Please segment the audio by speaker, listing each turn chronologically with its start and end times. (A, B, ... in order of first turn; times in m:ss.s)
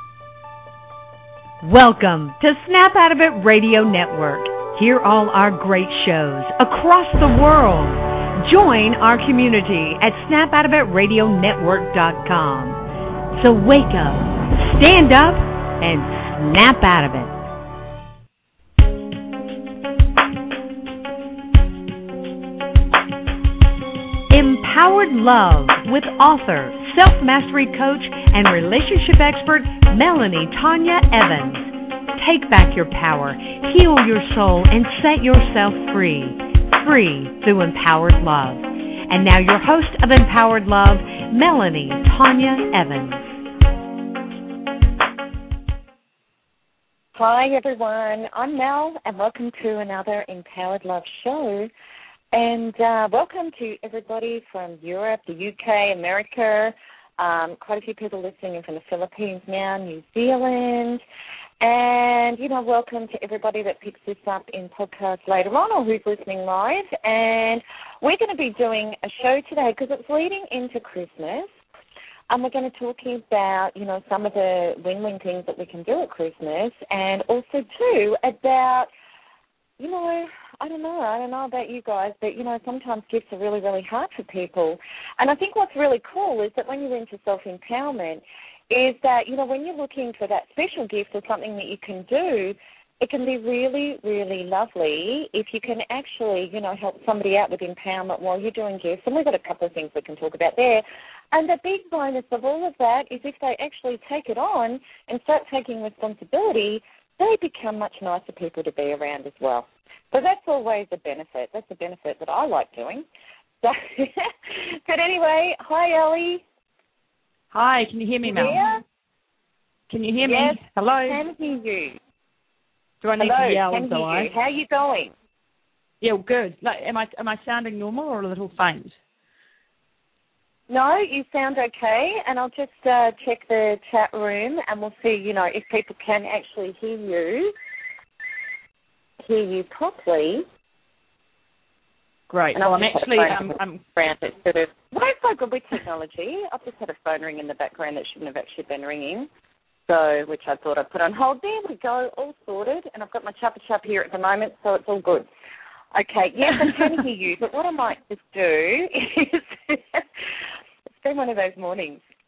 0:01.6-0:12.8 A
0:13.3-0:17.3 A
0:24.3-0:43.2 A
0:47.2-0:51.7 B
0:52.3-1:01.0 B
1:01.6-1:11.5 B
1:12.3-1:18.9 B
1:19.8-1:53.0 B
1:53.6-1:56.4 B
1:57.5-1:58.6 C
1:58.2-1:58.8 B
1:59.9-2:01.2 C
2:00.2-2:02.0 B
2:03.0-2:04.3 C
2:03.2-2:05.1 B
2:06.0-2:08.9 C
2:10.7-2:17.5 B
2:19.2-2:20.4 B
2:22.3-2:23.8 C
2:22.5-2:29.3 B
2:29.9-2:35.3 B
2:35.9-2:40.3 B
2:40.9-2:42.0 B